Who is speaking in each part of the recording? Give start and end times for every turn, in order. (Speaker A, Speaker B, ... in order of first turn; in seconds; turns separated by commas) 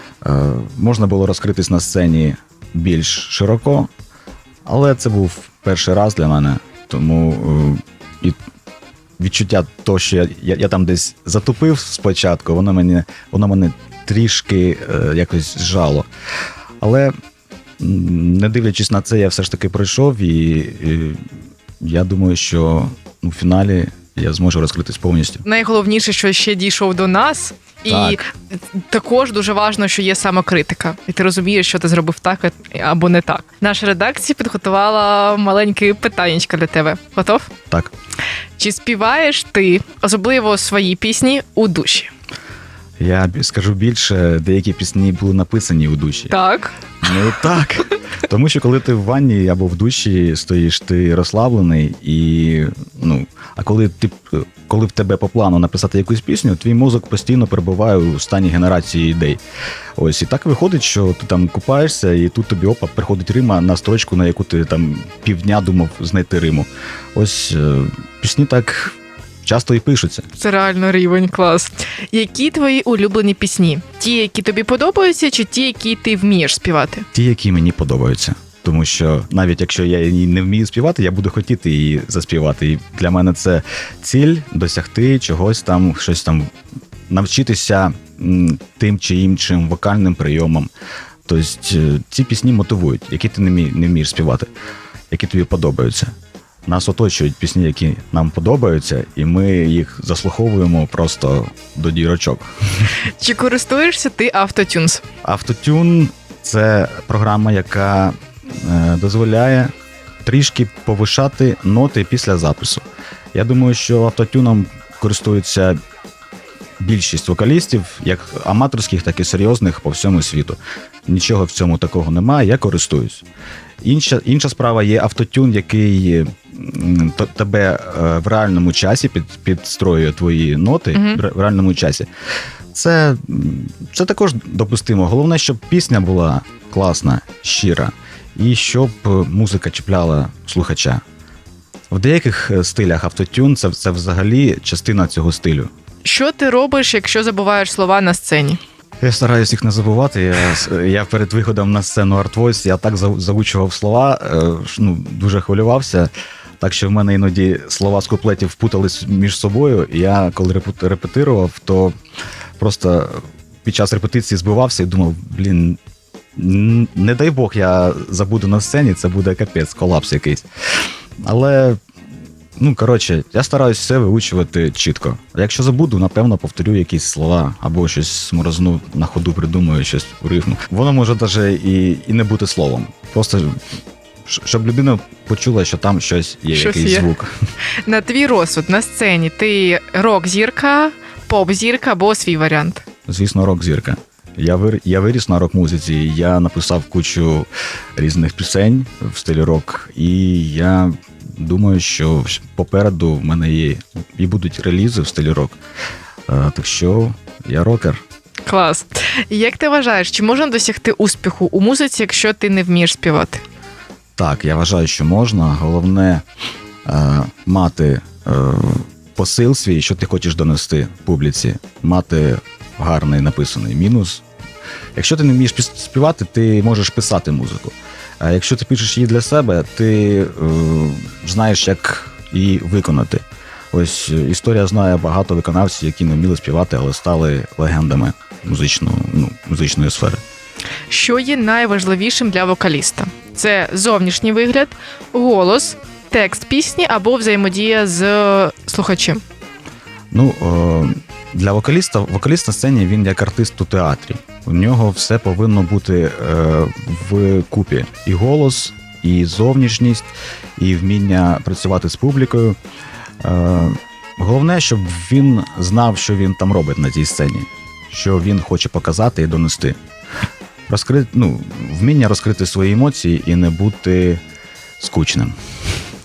Speaker A: 0.2-3.9, Speaker A: 4.6-8.4, Speaker A: 9.2-16.1, Speaker A: 16.8-17.1, Speaker A: 17.8-21.2, Speaker A: 21.8-25.4, Speaker B: 25.4-37.5, Speaker A: 27.9-28.2, Speaker B: 38.6-42.1, Speaker A: 43.0-46.3, Speaker B: 46.3-46.8, Speaker A: 47.0-59.4, Speaker A: 60.0-70.3, Speaker B: 70.3-77.1, Speaker A: 77.1-86.5, Speaker A: 87.1-90.7, Speaker A: 91.2-94.5, Speaker A: 95.1-96.1, Speaker A: 96.7-102.9, Speaker B: 103.0-105.0, Speaker A: 105.2-109.7, Speaker A: 110.2-115.8, Speaker A: 116.8-123.2, Speaker A: 123.8-132.1, Speaker B: 130.9-131.2, Speaker A: 132.7-141.0, Speaker A: 141.9-145.7, Speaker B: 146.0-148.6, Speaker A: 149.0-161.9, Speaker A: 162.6-165.8, Speaker A: 166.3-170.4, Speaker A: 171.2-171.8, Speaker A: 172.6-183.6, Speaker A: 184.2-187.3, Speaker B: 186.5-187.1, Speaker B: 187.8-192.8, Speaker A: 193.1-205.6, Speaker A: 206.3-208.0, Speaker B: 208.4-213.4, Speaker A: 214.2-216.2, Speaker A: 216.8-224.2, Speaker A: 224.9-240.2, Speaker B: 240.9-249.2, Speaker A: 250.1-262.6, Speaker A: 263.2-269.8, Speaker A: 270.7-274.2, Speaker A: 274.8-275.3